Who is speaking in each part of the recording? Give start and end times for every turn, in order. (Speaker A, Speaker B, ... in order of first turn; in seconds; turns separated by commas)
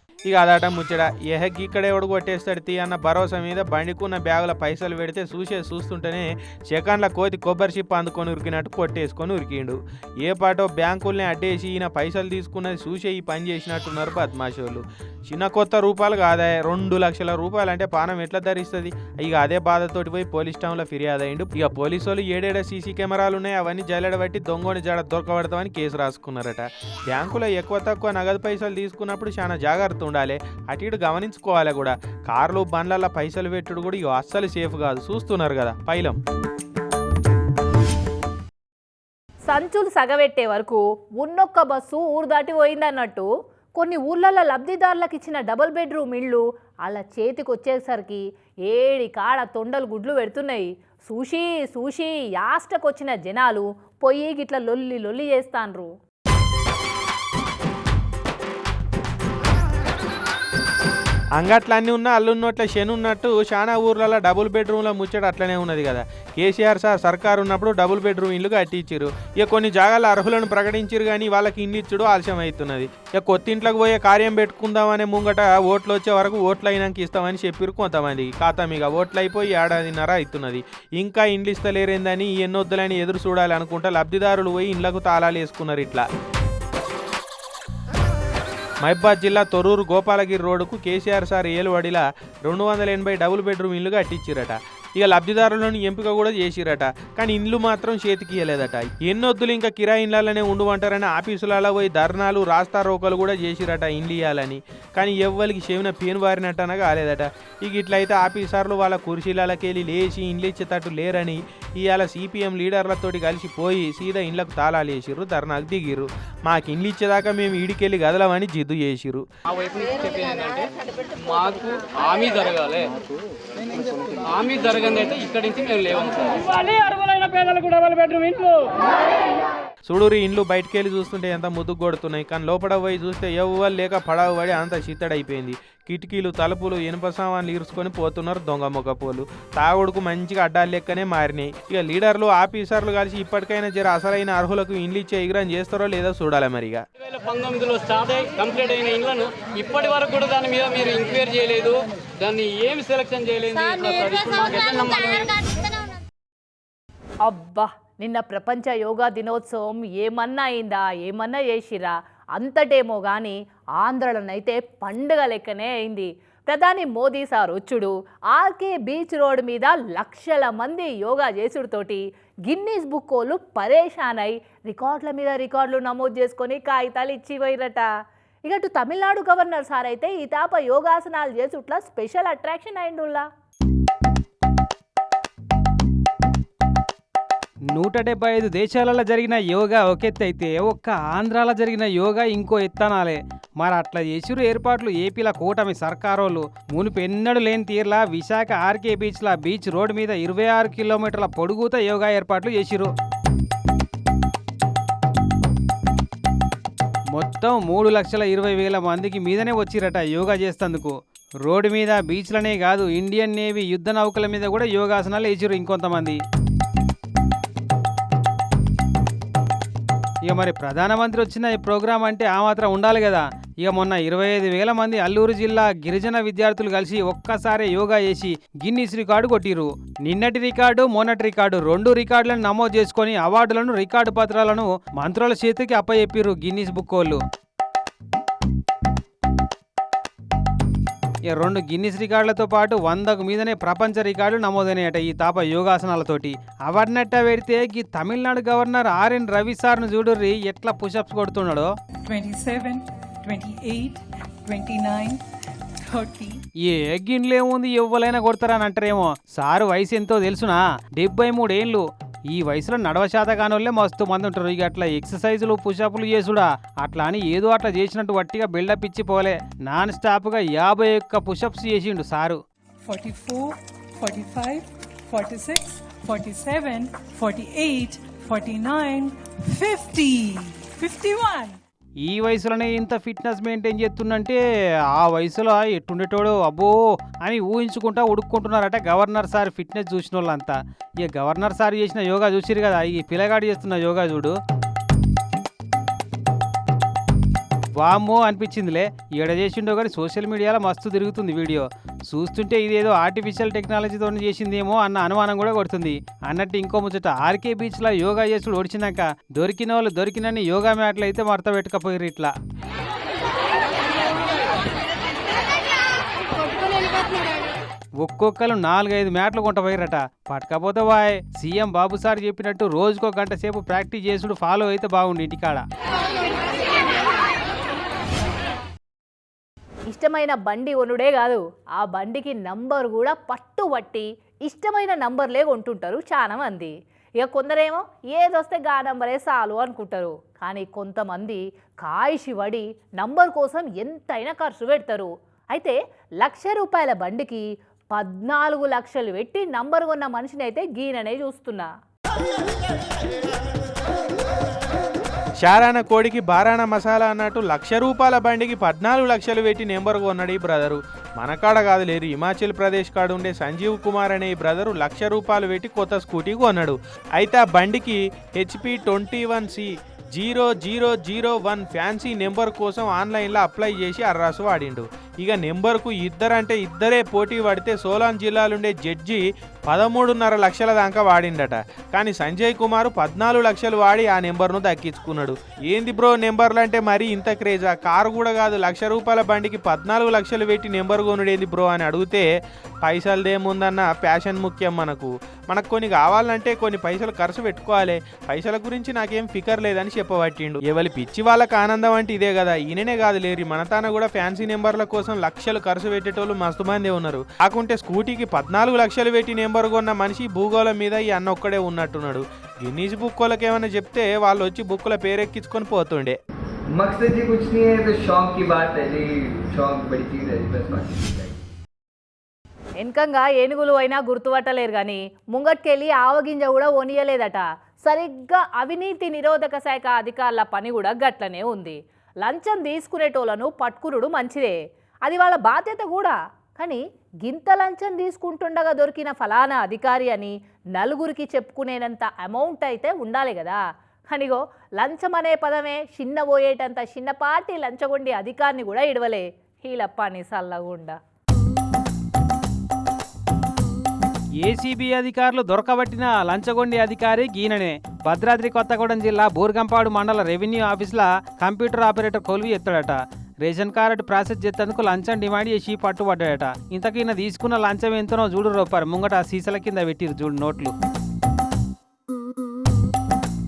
Speaker A: 0.3-36.2, Speaker B: 39.5-55.9, Speaker A: 61.4-86.0, Speaker A: 88.8-119.2, Speaker C: 119.6-122.9, Speaker C: 124.2-128.6, Speaker A: 129.9-146.8, Speaker C: 147.1-155.3, Speaker B: 157.2-177.9, Speaker B: 178.5-183.2, Speaker D: 187.7-202.9, Speaker D: 207.1-216.2, Speaker D: 220.2-237.2, Speaker D: 241.3-251.7, Speaker E: 252.1-255.2, Speaker E: 255.8-256.4, Speaker D: 256.6-272.4, Speaker E: 272.9-281.6, Speaker D: 282.0-284.4, Speaker D: 284.9-286.7, Speaker D: 287.2-294.3, Speaker D: 297.8-312.3, Speaker D: 318.0-325.6, Speaker B: 329.9-351.7, Speaker A: 355.4-392.3, Speaker A: 392.8-416.2, Speaker F: 416.8-421.3, Speaker B: 422.8-434.6, Speaker B: 435.1-443.6, Speaker B: 444.1-450.9, Speaker D: 454.4-470.7